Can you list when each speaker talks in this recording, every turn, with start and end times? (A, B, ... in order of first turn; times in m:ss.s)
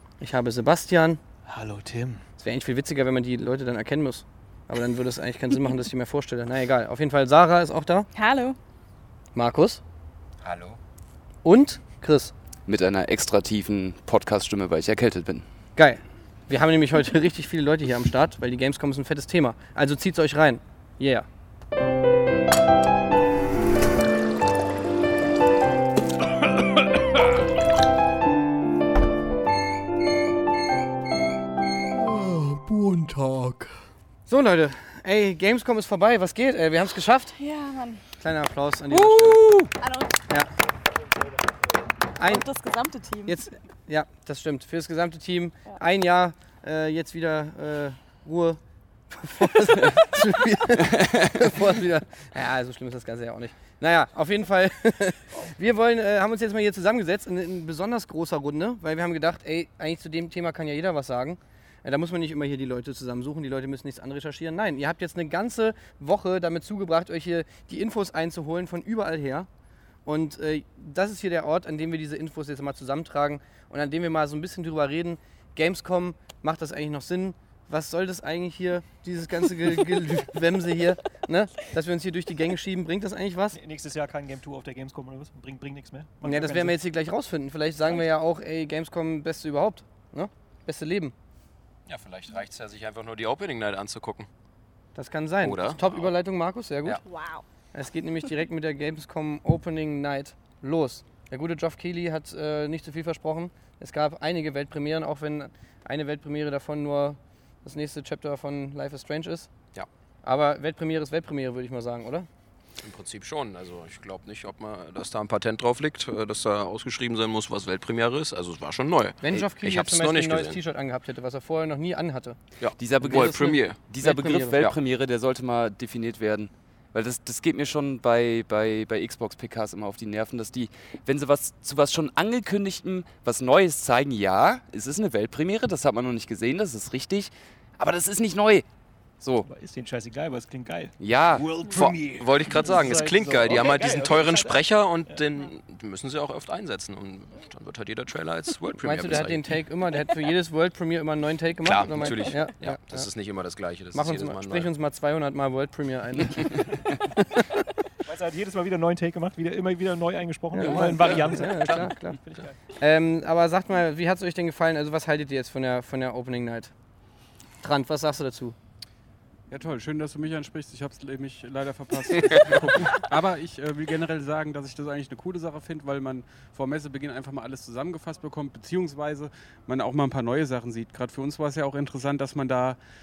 0:00.2-0:01.2 A
0:01.5-0:02.2 B
0:02.4-0:08.1 A
0:08.2-0:08.6 C
0:09.4-0:09.8 A
0:10.4-0:10.8 D
0:11.4-0:12.3 A
0:12.7-0:15.5 E
0:15.8-0:21.3 A
0:32.0-0:33.6 A
0:34.3-0:37.4 A
0:37.4-0:38.0 C
0:38.2-0:39.5 A
0:38.9-0:39.7 E
0:39.8-0:40.2 C
0:42.2-0:42.5 A
0:42.2-0:43.4 C
0:43.3-0:48.6 A
0:49.1-1:09.5 A
1:10.0-1:23.6 A
1:23.6-1:26.8 B
1:26.2-1:31.1 A
1:31.9-1:34.3 D
1:35.0-1:37.0 A
1:35.4-1:36.1 D
1:37.0-1:37.4 C
1:37.7-1:49.5 A
1:50.2-1:52.3 A
1:52.8-2:00.6 D
1:59.2-2:02.4 A
2:02.6-2:03.9 D
2:02.8-2:18.7 E
2:03.0-2:04.6 A
2:19.2-2:19.5 E
2:19.5-2:24.6 B
2:21.0-2:21.6 E
2:21.6-2:29.5 D
2:28.8-2:33.1 A
2:31.6-2:34.7 D
2:33.9-2:37.5 A
2:38.0-2:42.5 B
2:40.5-2:42.2 A
2:40.6-2:41.9 D
2:42.7-2:46.7 A
2:47.6-2:48.6 A
2:49.5-3:02.8 F